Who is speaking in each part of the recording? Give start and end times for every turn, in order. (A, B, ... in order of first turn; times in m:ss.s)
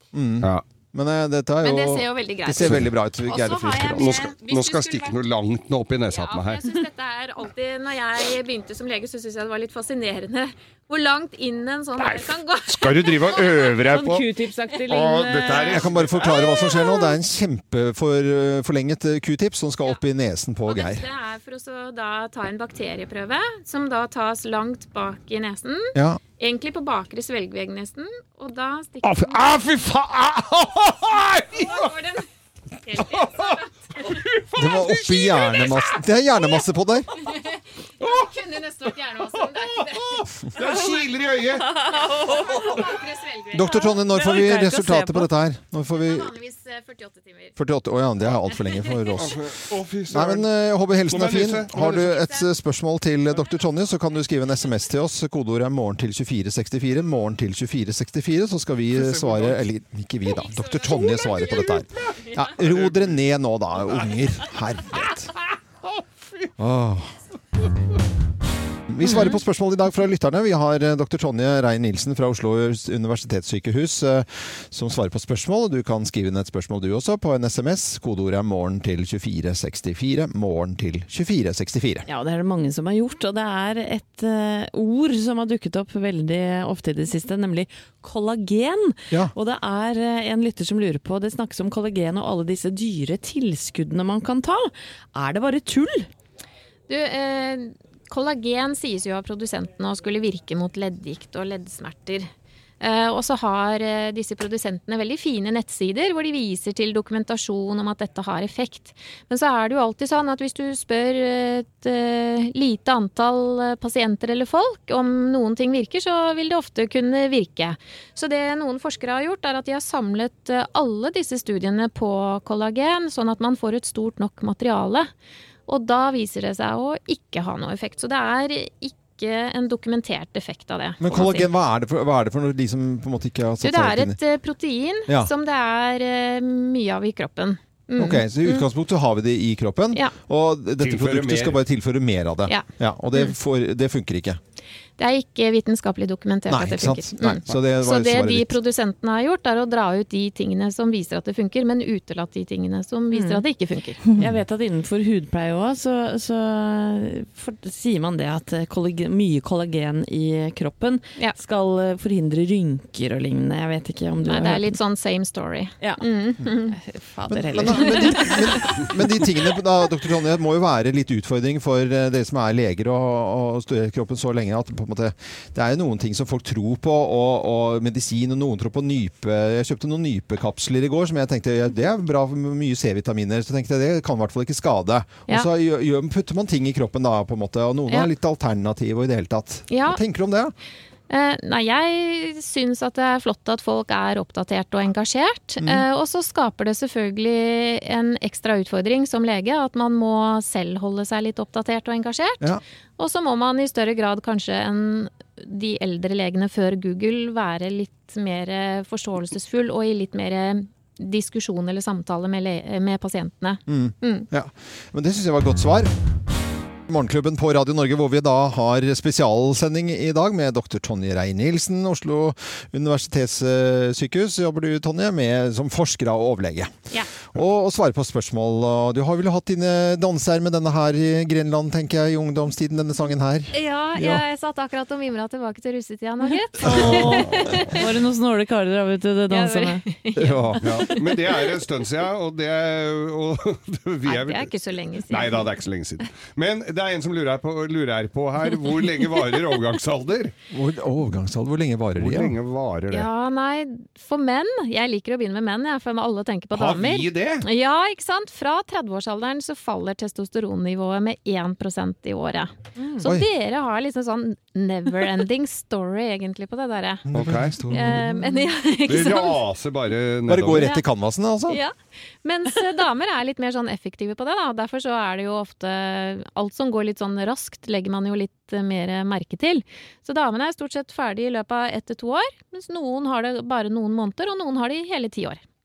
0:00.1-0:04.2 A
0:01.6-0:05.2 B
0:03.9-0:06.7 C
0:06.1-0:13.8 B
0:12.0-0:14.3 C
0:13.9-0:15.8 D
0:14.9-0:16.3 C
0:15.3-0:15.8 B
0:15.7-0:21.0 A
0:16.4-0:17.2 B
0:20.7-0:29.5 B
0:26.0-0:26.2 A
0:29.0-0:31.9 C
0:31.5-0:32.3 B
0:32.8-0:34.1 B
0:33.0-0:36.0 C
0:34.6-0:37.1 A
0:37.2-0:40.7 B
0:38.0-0:38.3 C
0:39.3-0:41.8 C
0:41.6-0:42.8 D
0:41.9-0:44.0 B
0:43.5-0:46.3 A
0:44.1-0:45.3 D
0:45.9-0:47.6 B
0:47.6-0:49.6 A
0:49.2-0:50.5 C
0:50.1-1:05.3 A
0:51.1-0:52.3 C
0:58.9-0:59.7 C
1:00.3-1:01.8 B
1:01.8-1:03.2 C
1:03.8-1:04.1 C
1:04.9-1:06.5 C
1:06.6-1:07.1 A
1:08.9-1:22.1 A
1:22.1-1:36.1 D
1:36.9-1:42.3 B
1:42.8-2:05.1 B
2:05.7-2:11.5 B
2:11.0-2:14.2 A
2:13.6-2:18.7 B
2:18.0-2:24.4 A
2:20.8-2:21.6 C
2:22.5-2:23.3 B
2:25.0-2:34.0 B
2:26.5-2:28.6 A
2:33.1-2:33.4 D
2:34.2-2:44.8 D
2:44.2-2:46.8 B
2:46.7-2:49.2 D
2:47.3-3:10.5 A
3:09.7-3:10.0 B
3:11.1-3:34.3 B
3:33.7-3:35.9 A
3:36.9-3:46.7 A
3:47.3-3:54.2 A
3:53.5-3:57.9 B
3:56.3-3:59.8 D
3:56.6-3:57.6 A
3:59.3-4:01.3 B
4:00.2-4:00.7 A
4:00.6-4:04.5 C
4:04.1-4:05.5 B
4:05.1-4:10.3 C
4:10.5-4:12.3 A
4:12.0-4:13.1 C
4:12.9-4:27.1 B
4:16.5-4:17.5 C
4:22.8-4:23.1 D
4:27.1-4:28.4 A
4:27.2-4:27.6 C
4:27.7-4:29.4 B
4:28.8-4:30.7 C
4:30.3-4:31.6 A
4:31.5-4:45.4 B